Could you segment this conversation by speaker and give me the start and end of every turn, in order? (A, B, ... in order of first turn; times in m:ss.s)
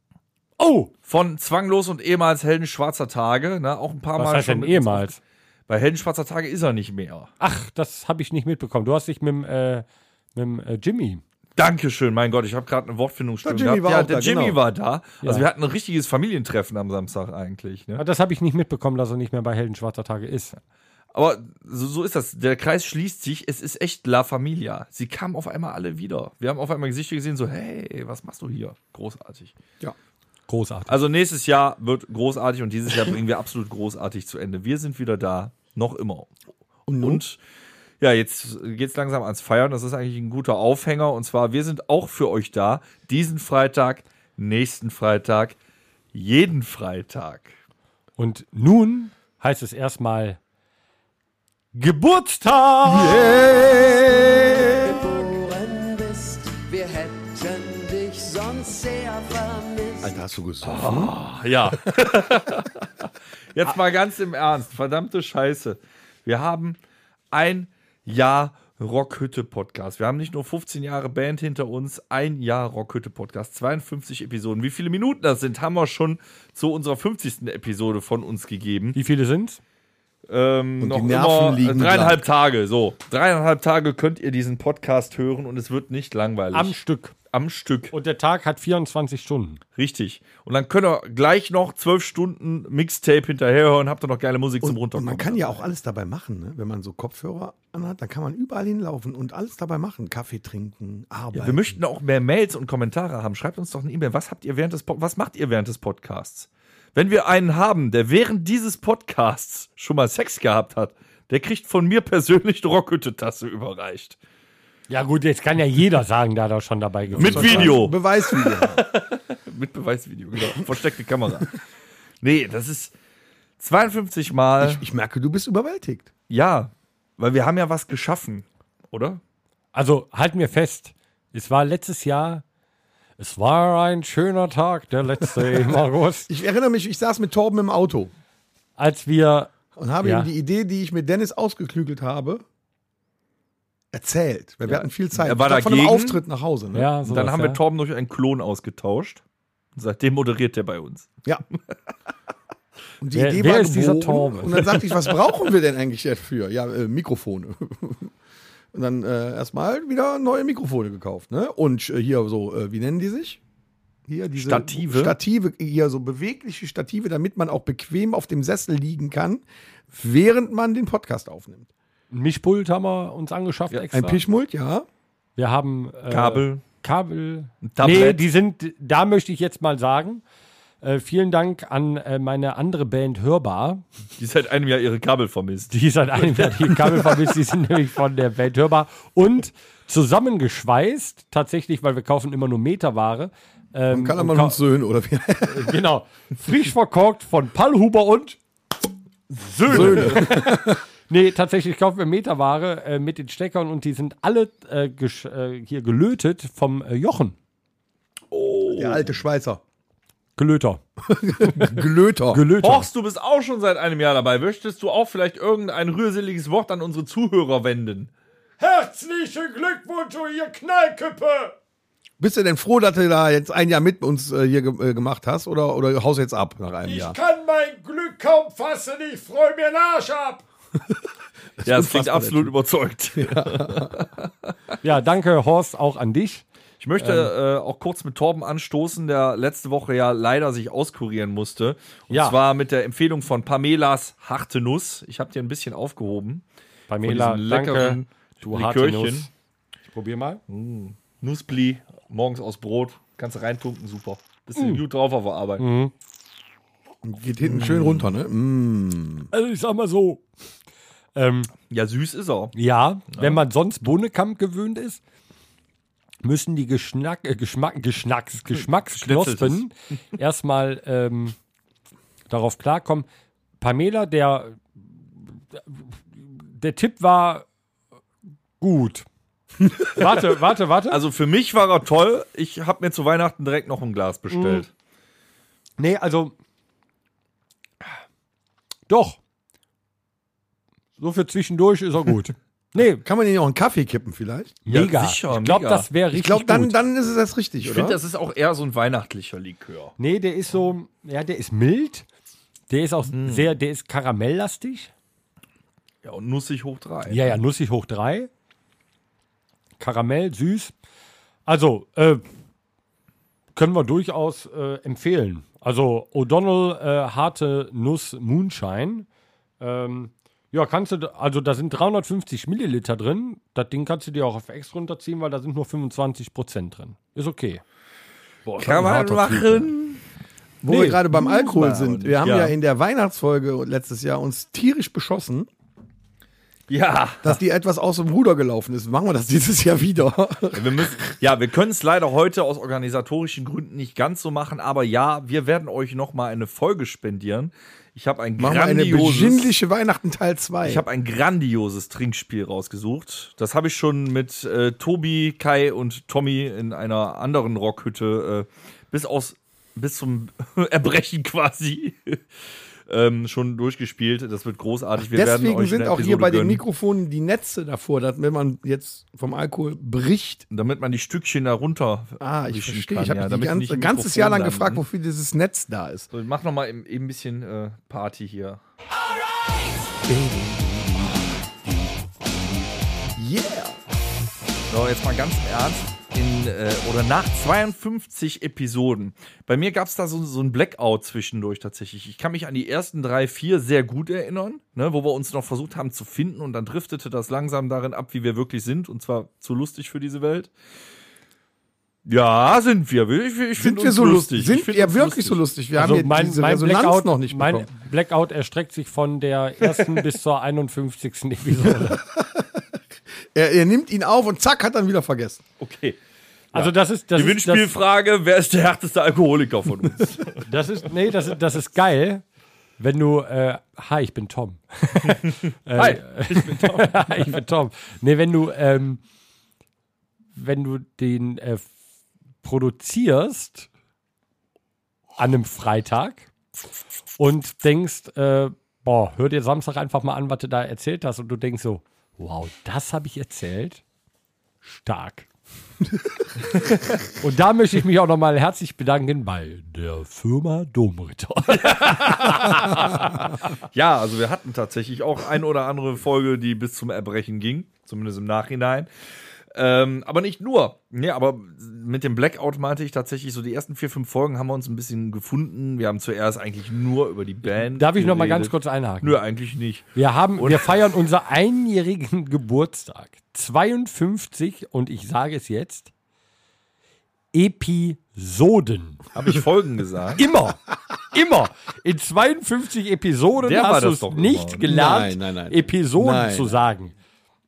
0:00.6-0:00.9 A
0:01.1-0:05.1 B
0:04.2-0:05.2 A
0:05.7-0:07.3 B
0:07.4-0:11.2 A
0:11.6-0:18.0 B
0:13.4-0:14.6 C
0:18.0-0:20.6 A
0:21.1-0:29.5 B
0:30.5-0:31.0 A
0:30.9-0:36.3 B
0:36.9-0:37.2 C
0:37.0-0:37.4 B
0:38.0-0:45.6 B
0:46.1-0:47.6 B
0:48.2-0:50.4 A
0:51.7-0:53.3 A
0:52.9-0:54.7 C
0:53.1-1:00.3 D
1:00.0-1:01.2 C
1:00.6-1:06.8 B
1:07.3-1:19.0 B
1:18.9-1:19.6 A
1:20.3-1:26.8 B
1:20.8-1:22.2 C
1:26.5-1:27.1 A
1:27.3-1:27.9 B
1:27.9-1:29.6 A
1:29.8-1:35.7 B
1:34.6-1:41.8 C
1:41.3-1:54.2 B
1:54.9-1:57.8 A
1:57.1-1:58.8 C
1:57.2-2:01.6 B
2:02.2-2:02.9 B
2:03.6-2:04.8 B
2:04.6-2:06.1 C
2:06.3-2:09.2 B
2:09.7-2:12.4 A
2:13.2-2:16.3 A
2:16.3-2:18.1 C
2:18.8-2:20.3 A
2:19.8-2:22.4 C
2:23.9-2:26.9 C
2:25.2-2:26.2 B
2:26.7-2:27.6 A
2:27.1-2:29.2 B
2:29.8-2:31.1 B
2:33.0-2:38.1 C
2:33.1-2:34.8 A
2:38.7-2:43.4 C
2:44.1-2:51.7 C
2:44.4-2:45.2 B
2:52.1-2:54.2 A
2:53.9-2:54.9 C
2:55.4-3:00.2 A
2:56.1-2:56.6 B
2:57.6-2:58.3 B
3:00.8-3:03.8 A
3:04.2-3:07.2 B
3:05.7-3:14.6 A
3:13.9-3:15.8 C
3:15.4-3:18.4 A
3:19.3-3:27.4 A
3:19.7-3:20.8 C
3:19.7-3:20.0 B
3:28.3-3:29.1 B
3:28.8-3:29.6 C
3:30.4-3:30.8 A
3:31.1-3:32.4 C
3:31.4-3:31.7 A
3:32.3-3:32.9 A
3:32.6-3:38.1 B
3:38.6-3:41.6 A
3:42.2-3:47.2 C
3:46.8-3:50.4 A
3:51.6-3:52.6 C
3:51.6-3:54.3 B
3:53.2-3:54.0 C
3:54.8-3:56.4 A
3:56.8-4:06.4 B
3:57.0-3:57.3 A
4:02.1-4:02.4 A
4:06.9-4:09.3 A
4:07.0-4:09.3 B
4:09.9-4:10.4 A
4:10.5-4:15.6 B
4:15.6-4:15.9 A
4:17.0-4:19.3 C
4:17.6-4:17.9 B
4:19.3-4:20.2 A
4:21.2-4:21.5 A
4:21.7-4:22.5 B
4:22.6-4:25.0 A
4:23.1-4:23.4 B
4:26.2-4:31.4 A
4:28.6-4:29.6 B
4:32.3-4:33.1 A
4:33.6-4:34.8 A
4:35.5-4:37.5 A
4:38.6-4:39.1 A
4:39.8-4:41.0 A
4:40.9-4:44.7 B
4:44.3-4:44.7 A
4:45.8-4:46.4 A
4:48.9-4:49.2 A
4:51.0-4:53.0 A
4:53.0-4:54.6 C
4:54.6-4:56.8 A
4:54.7-4:55.9 B
4:56.1-4:58.0 C
4:57.6-4:59.9 B
5:00.0-5:02.1 A
5:02.7-5:04.9 A
5:03.1-5:03.5 B
5:06.0-5:07.4 B
5:07.1-5:08.3 A
5:09.8-5:10.7 A
5:11.5-5:12.2 A
5:13.6-5:19.1 A
5:19.6-5:27.6 A
5:28.5-5:29.6 C
5:28.6-5:30.0 B
5:29.0-5:29.7 A
5:30.6-5:35.5 C
5:30.7-5:31.0 A
5:31.1-5:32.6 B
5:36.7-5:37.4 B
5:37.2-5:41.0 C
5:40.5-5:49.5 B
5:48.4-5:50.8 C
5:50.6-6:02.2 B
6:02.9-6:06.6 B
6:05.0-6:10.4 C
6:10.5-6:14.8 B
6:12.2-6:16.1 C
6:16.1-6:18.6 B
6:20.0-6:23.8 C
6:24.7-6:40.5 B
6:42.1-6:45.4 B
6:43.6-6:47.7 C
6:45.8-6:52.0 A
6:51.8-6:52.6 C
6:53.3-6:55.4 C
6:55.6-6:56.0 B
6:56.5-7:00.4 B
6:56.5-6:57.7 A
7:00.5-7:02.2 A
7:02.8-7:09.0 A
7:05.8-7:07.4 B
7:10.4-7:11.7 A
7:12.4-7:13.7 A
7:15.2-7:16.3 A
7:17.2-7:23.8 A
7:24.6-7:25.3 A
7:27.0-7:33.2 A
7:31.5-7:38.9 B
7:39.5-7:50.8 B
7:47.5-7:49.2 A
7:50.0-7:55.9 A
7:57.3-7:59.0 A
7:59.1-8:00.2 B
8:00.2-8:06.9 A
8:03.4-8:04.6 B
8:04.7-8:06.5 C